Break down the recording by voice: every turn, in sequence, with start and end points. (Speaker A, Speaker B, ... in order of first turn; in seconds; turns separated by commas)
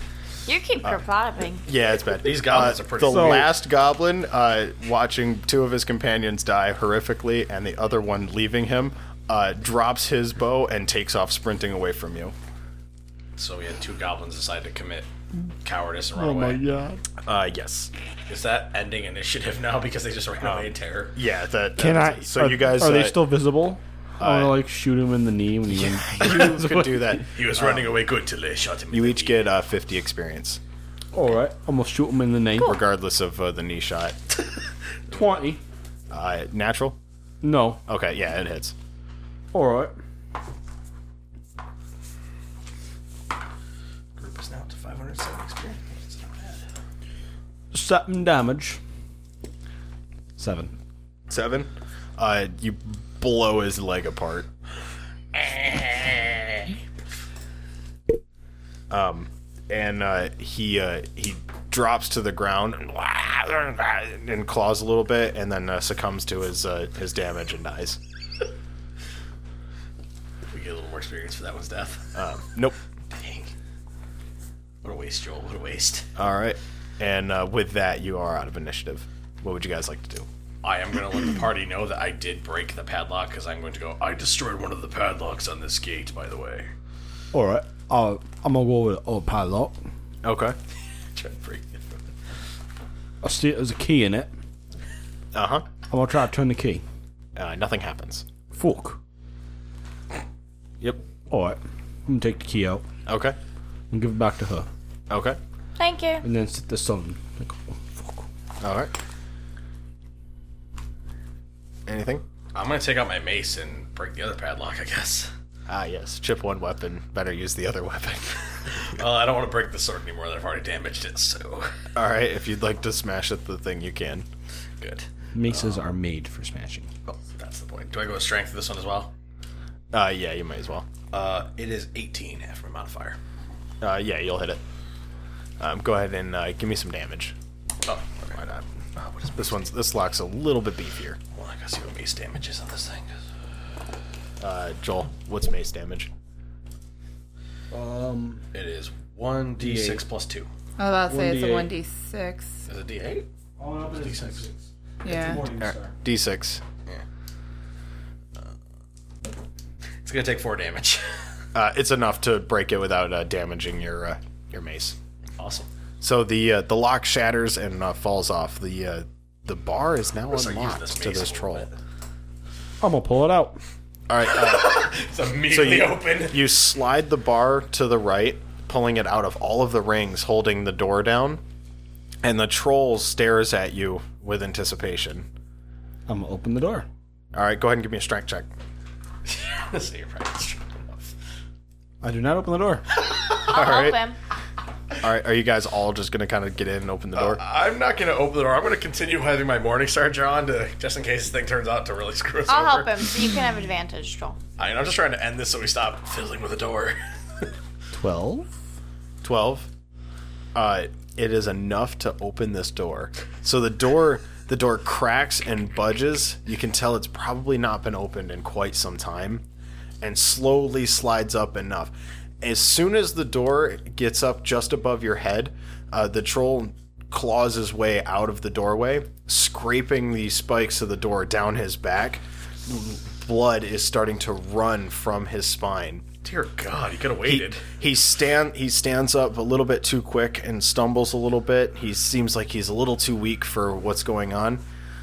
Speaker A: 0.5-1.7, Speaker B: 1.6-12.3, Speaker C: 2.1-3.5, Speaker D: 3.0-3.5, Speaker C: 13.4-15.1, Speaker C: 15.6-16.6, Speaker D: 16.1-17.0, Speaker B: 17.2-17.9, Speaker C: 18.3-21.1, Speaker B: 20.4-23.2, Speaker D: 21.8-27.2, Speaker B: 24.2-24.6, Speaker B: 26.0-28.0, Speaker C: 27.3-29.5, Speaker B: 28.9-30.6, Speaker D: 31.1-32.8, Speaker B: 32.6-34.2, Speaker D: 35.1-35.6, Speaker B: 36.1-37.0, Speaker D: 37.4-37.8, Speaker B: 37.9-38.7, Speaker D: 39.5-39.9, Speaker C: 44.2-46.6, Speaker D: 47.7-48.8, Speaker D: 50.4-50.8, Speaker B: 51.3-54.5, Speaker C: 55.4-56.3, Speaker B: 58.9-68.0, Speaker C: 70.5-72.2, Speaker B: 72.2-72.8, Speaker C: 73.1-73.5, Speaker C: 74.8-76.1, Speaker B: 76.2-80.3, Speaker C: 80.6-86.7, Speaker D: 87.3-89.8, Speaker B: 90.2-90.6, Speaker C: 91.2-92.1, Speaker D: 93.2-94.3, Speaker B: 95.3-95.7, Speaker D: 95.9-96.8, Speaker B: 97.4-98.2, Speaker D: 98.5-99.0, Speaker D: 101.3-102.8, Speaker B: 103.1-103.4, Speaker D: 103.9-104.7, Speaker B: 105.1-105.4, Speaker A: 105.8-106.3, Speaker D: 106.2-108.2, Speaker B: 108.6-108.9, Speaker B: 111.9-112.2, Speaker C: 112.5-115.3, Speaker B: 115.7-118.7, Speaker C: 118.8-121.7, Speaker B: 122.0-124.3, Speaker C: 124.8-125.8, Speaker D: 125.3-126.9, Speaker C: 127.1-129.1, Speaker B: 129.9-130.9, Speaker C: 131.1-133.2, Speaker B: 133.8-134.6, Speaker B: 135.6-137.3, Speaker C: 137.9-138.4, Speaker B: 138.3-138.7, Speaker C: 139.0-139.7, Speaker B: 139.3-141.2, Speaker C: 141.3-143.1, Speaker B: 144.4-146.1, Speaker D: 147.7-148.4, Speaker C: 148.5-150.5, Speaker D: 149.6-150.0, Speaker E: 150.8-152.6, Speaker D: 151.1-151.7, Speaker C: 152.7-153.3, Speaker D: 153.6-155.9, Speaker C: 153.9-154.4, Speaker E: 155.0-155.5, Speaker B: 155.6-156.6, Speaker C: 160.0-161.2, Speaker B: 161.5-165.0, Speaker C: 165.4-165.7, Speaker B: 166.0-171.7, Speaker C: 170.3-171.7, Speaker D: 172.8-173.6, Speaker B: 174.1-181.4, Speaker C: 174.3-176.4, Speaker B: 182.2-185.3, Speaker D: 186.1-186.9, Speaker B: 187.3-188.5, Speaker C: 189.3-191.1, Speaker D: 192.0-192.8, Speaker A: 193.3-194.2, Speaker B: 193.4-194.0, Speaker B: 195.0-197.4, Speaker C: 197.2-203.1, Speaker A: 202.5-204.4, Speaker C: 204.6-207.5, Speaker D: 207.9-208.5, Speaker B: 209.2-209.7, Speaker B: 210.6-219.4, Speaker B: 220.0-236.1, Speaker C: 236.2-237.7, Speaker B: 237.2-244.6